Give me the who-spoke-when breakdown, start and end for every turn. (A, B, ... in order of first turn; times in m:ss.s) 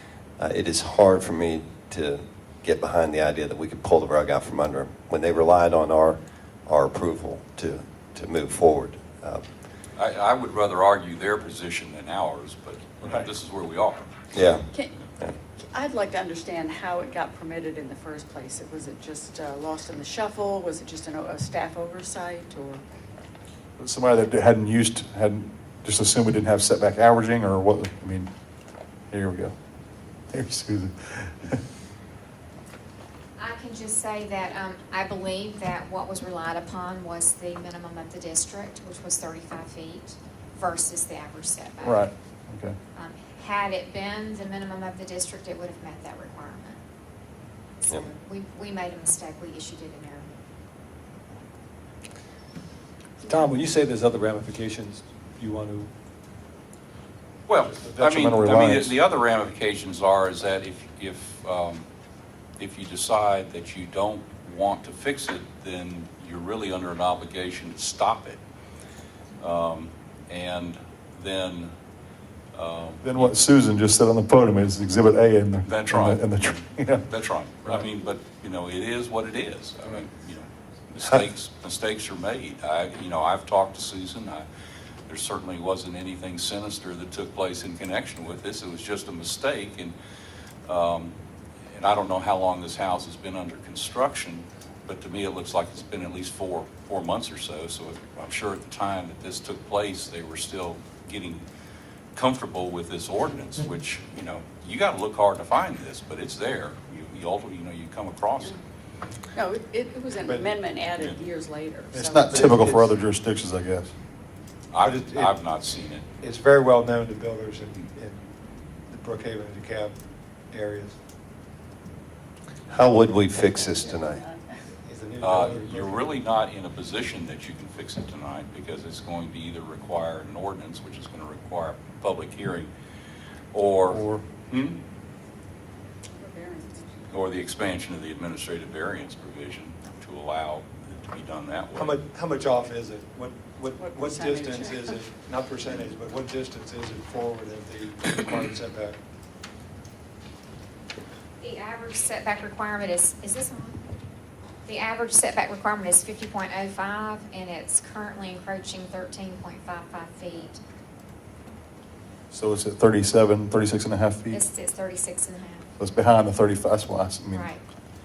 0:00.4-0:09.4 A
0:10.0-0:14.1 B
0:13.0-0:13.3 C
0:14.3-0:14.7 A
0:14.7-0:14.9 D
0:15.6-0:22.8 D
0:23.8-0:28.3 E
0:29.1-0:29.5 E
0:30.3-0:31.6 E
0:33.4-0:42.1 F
0:41.8-0:42.7 E
0:42.9-0:46.8 F
0:47.8-0:50.3 F
0:53.2-0:55.9 G
0:57.5-1:01.8 B
0:57.9-0:58.9 E
1:02.6-1:08.4 B
1:09.4-1:11.7 B
1:12.5-1:13.4 B
1:13.0-1:17.1 E
1:15.6-1:16.5 B
1:17.1-1:24.4 B
1:25.1-1:29.9 B
1:30.6-1:31.1 B
1:31.7-1:41.4 B
1:42.1-1:48.6 B
1:49.3-1:52.6 D
1:50.2-1:50.5 C
1:51.9-1:53.9 E
1:52.3-1:52.9 C
1:54.7-1:56.0 B
1:54.8-1:55.4 C
1:56.2-1:58.2 C
1:58.8-1:59.9 C
2:00.5-2:01.0 C
2:02.7-2:04.2 A
2:03.7-2:04.6 D
2:04.8-2:06.2 C
2:05.2-2:12.7 B
2:13.5-2:14.8 B
2:13.9-2:14.2 E
2:16.2-2:17.1 D
2:17.1-2:22.0 B
2:21.7-2:29.0 C
2:23.8-2:25.0 D
2:31.4-2:33.8 F
2:34.6-2:40.6 F
2:42.3-2:44.4 E
2:44.3-2:45.7 F
2:45.8-2:47.5 E
2:47.3-2:47.6 F